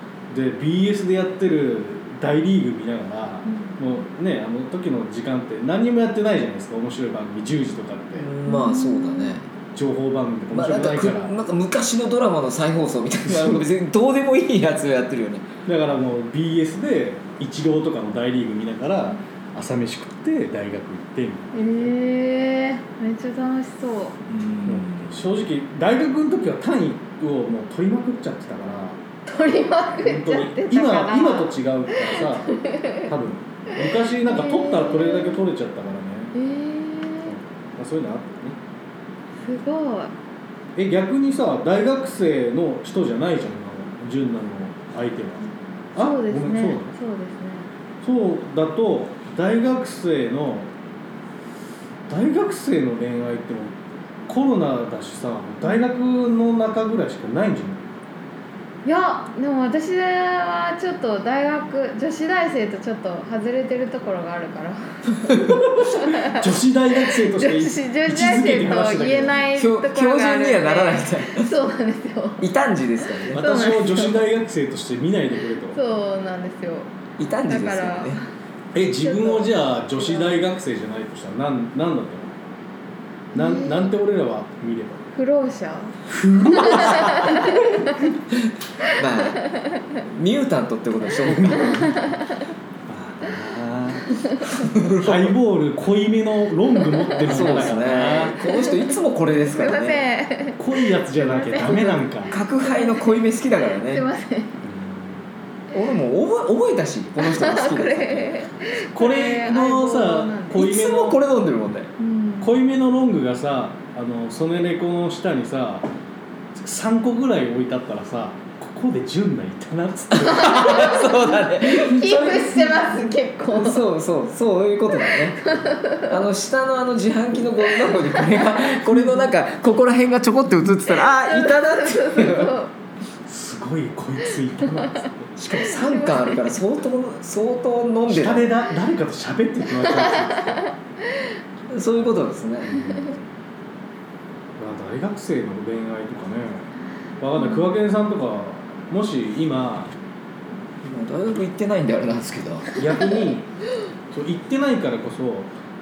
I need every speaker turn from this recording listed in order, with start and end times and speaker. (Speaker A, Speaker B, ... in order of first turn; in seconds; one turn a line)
Speaker A: 0.3-8.3
Speaker B: 3.5-3.8
Speaker C: 8.2-9.5
Speaker B: 8.5-9.4
Speaker A: 9.7-11.3
Speaker C: 10.5-15.5
Speaker A: 13.3-13.6
Speaker A: 15.7-21.9
Speaker B: 21.5-24.2
Speaker C: 24.3-25.1
Speaker A: 24.7-29.0
Speaker B: 29.3-33.1
Speaker A: 30.0-36.3
Speaker B: 33.8-35.4
Speaker B: 36.3-37.4
Speaker A: 37.3-38.6
Speaker B: 39.4-40.1
Speaker A: 40.8-45.4
Speaker A: 46.0-46.9
Speaker B: 46.0-47.7
Speaker A: 48.0-50.7
Speaker A: 52.1-53.7
Speaker A: 54.3-57.8
Speaker B: 58.9-66.5
Speaker A: 65.3-69.4
Speaker B: 67.0-72.5
Speaker C: 69.6-71.5
Speaker C: 72.4-73.4
Speaker A: 73.3-75.8
Speaker B: 73.3-74.2
Speaker B: 75.7-76.9
Speaker C: 77.2-78.2
Speaker B: 77.5-78.3
Speaker A: 78.7-82.4
Speaker B: 79.0-80.3
Speaker A: 83.3-85.1
Speaker B: 83.3-83.9
Speaker B: 85.2-86.0
Speaker A: 86.1-88.2
Speaker B: 86.7-87.7
Speaker C: 89.0-89.4
Speaker B: 89.3-89.9
Speaker C: 90.1-92.0
Speaker A: 91.2-91.8
Speaker B: 91.7-92.4
Speaker A: 92.9-94.1
Speaker C: 94.5-95.3
Speaker A: 95.0-98.4
Speaker C: 97.2-100.0
Speaker B: 99.5-103.2
Speaker A: 100.6-102.3
Speaker C: 102.3-104.0
Speaker B: 103.7-104.6
Speaker A: 104.6-105.1
Speaker C: 105.7-108.3
Speaker B: 107.2-110.6
Speaker A: 109.0-111.2
Speaker C: 110.5-111.9
Speaker B: 112.0-112.5
Speaker A: 112.4-115.9
Speaker A: 116.5-121.0
Speaker B: 120.2-121.1
Speaker C: 120.3-122.8
Speaker B: 121.6-123.8
Speaker C: 123.5-132.5
Speaker B: 125.1-126.1
Speaker B: 127.8-129.2
Speaker B: 130.8-132.7
Speaker A: 133.3-135.3
Speaker C: 135.4-138.5
Speaker B: 135.6-136.4
Speaker A: 138.1-140.6
Speaker B: 139.9-141.3
Speaker C: 141.7-142.7
Speaker A: 142.6-143.3
Speaker B: 142.7-143.1
Speaker A: 144.6-149.9
Speaker B: 147.4-147.7
Speaker C: 150.8-152.9
Speaker A: 152.8-153.5
Speaker A: 154.1-155.5